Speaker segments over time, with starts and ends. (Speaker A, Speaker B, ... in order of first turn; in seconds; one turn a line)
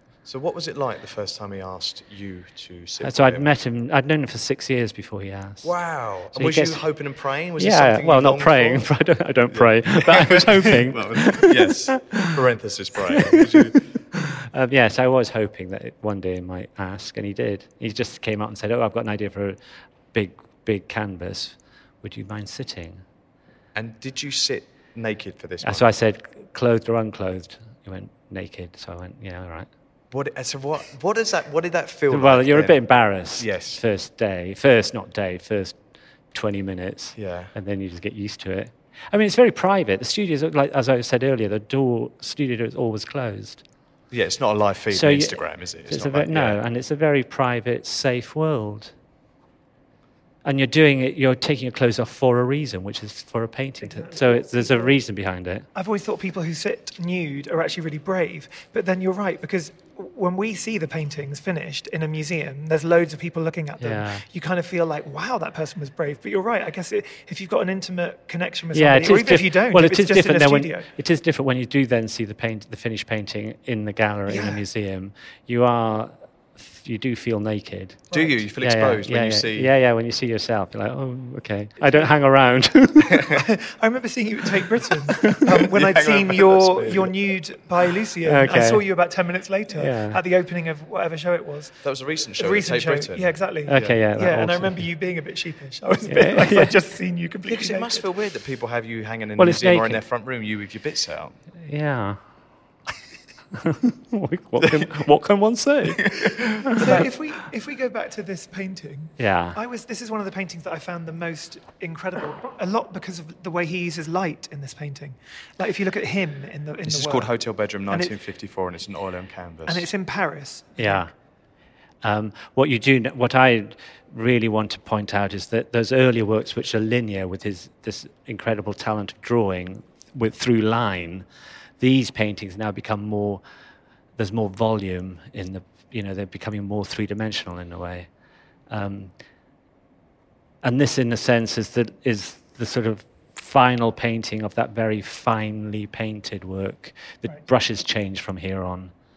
Speaker A: 0.2-3.5
Speaker B: 3.0-5.7
Speaker A: 5.6-8.9
Speaker B: 6.3-6.8
Speaker B: 7.6-12.3
Speaker A: 9.5-13.9
Speaker B: 13.1-19.6
Speaker B: 20.1-23.0
Speaker A: 23.8-25.9
Speaker B: 25.6-29.7
Speaker A: 30.1-32.8
Speaker B: 32.1-35.8
Speaker A: 33.3-33.8
Speaker B: 36.3-43.6
Speaker A: 37.1-37.5
Speaker A: 44.1-46.6
Speaker B: 44.9-48.9
Speaker B: 50.4-55.7
Speaker C: 53.8-55.0
Speaker C: 55.8-70.9
Speaker B: 63.8-64.2
Speaker B: 68.7-78.0
Speaker C: 74.3-74.6
Speaker C: 78.1-78.4
Speaker A: 78.1-79.7
Speaker B: 78.6-83.3
Speaker C: 83.4-91.8
Speaker A: 85.7-87.3
Speaker B: 88.2-88.9
Speaker B: 89.7-90.2
Speaker A: 91.8-94.0
Speaker C: 92.4-98.0
Speaker B: 93.7-94.9
Speaker B: 96.0-96.8
Speaker A: 97.5-101.4
Speaker B: 99.4-100.0
Speaker B: 101.6-102.2
Speaker B: 103.6-107.1
Speaker A: 104.6-105.0
Speaker A: 106.0-107.1
Speaker C: 106.8-118.2
Speaker B: 109.2-109.6
Speaker A: 116.8-119.9
Speaker C: 119.7-121.1
Speaker B: 120.8-121.1
Speaker B: 122.0-131.2
Speaker B: 131.8-133.4
Speaker B: 134.2-138.1
Speaker B: 138.7-139.1
Speaker B: 140.6-148.9